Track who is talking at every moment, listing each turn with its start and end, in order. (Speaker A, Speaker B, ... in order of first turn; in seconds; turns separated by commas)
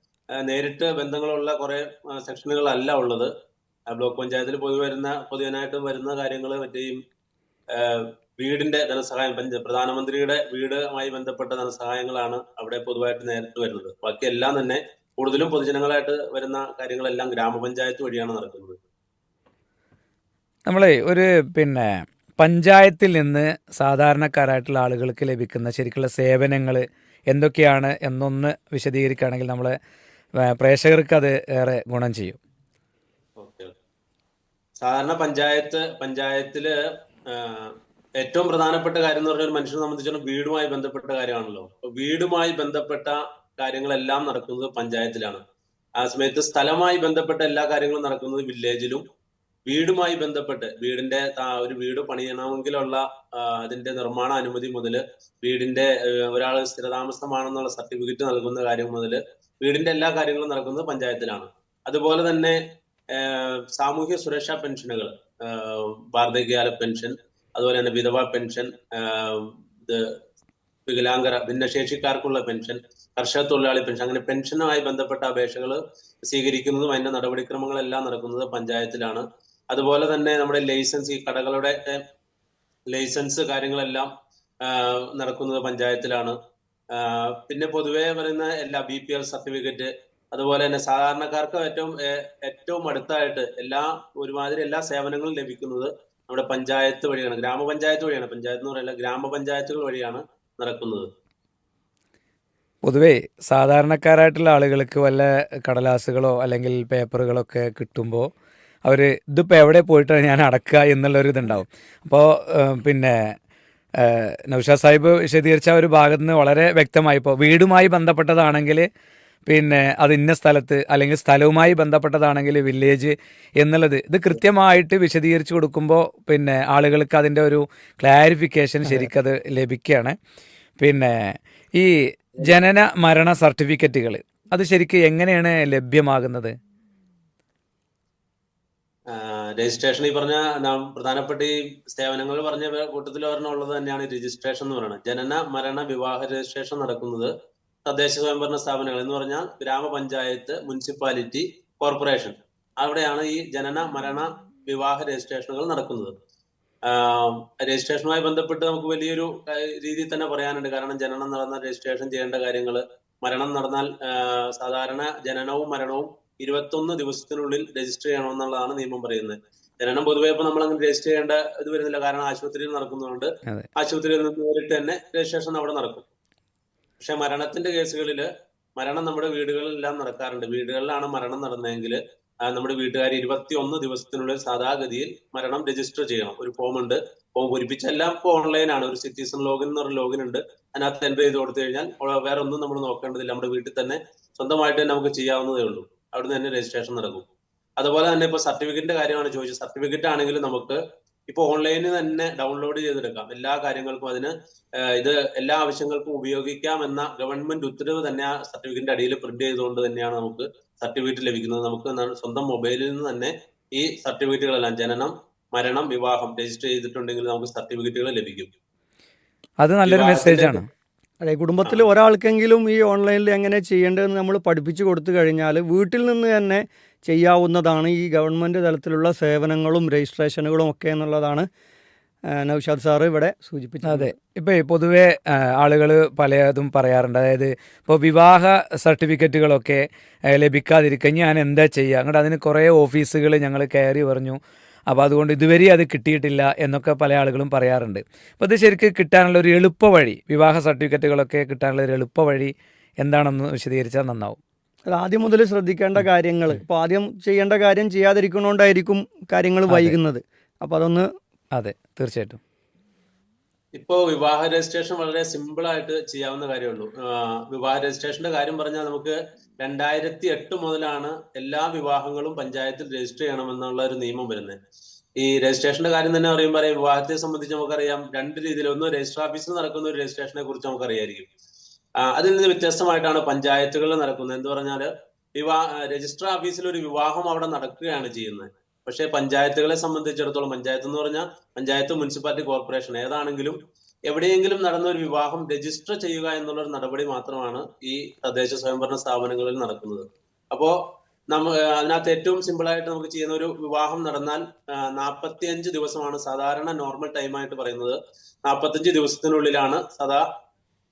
Speaker A: 0.4-3.3, Speaker A: 3.9-7.0, Speaker A: 7.7-18.8, Speaker B: 20.7-29.8, Speaker B: 30.4-32.4, Speaker A: 33.4-33.8, Speaker A: 34.8-36.7, Speaker A: 37.3-45.4, Speaker A: 46.0-49.0, Speaker A: 49.7-70.1, Speaker A: 70.9-82.0, Speaker A: 82.9-84.1, Speaker A: 84.6-86.4, Speaker A: 86.9-101.1, Speaker B: 102.8-108.3, Speaker B: 108.8-113.3, Speaker B: 114.0-118.9, Speaker B: 119.5-130.2, Speaker B: 130.8-136.6, Speaker A: 139.1-147.3, Speaker A: 147.9-156.1, Speaker A: 156.8-176.1, Speaker A: 177.0-197.3, Speaker A: 197.8-218.5, Speaker B: 219.6-220.7, Speaker A: 219.9-220.6, Speaker C: 221.2-231.5, Speaker C: 232.3-234.2, Speaker B: 233.8-244.4, Speaker B: 244.9-254.4, Speaker C: 254.9-261.1, Speaker B: 259.7-259.9, Speaker B: 261.5-262.4, Speaker A: 263.8-274.6, Speaker A: 275.2-281.3, Speaker A: 282.0-293.6, Speaker A: 294.1-300.8, Speaker A: 301.3-310.3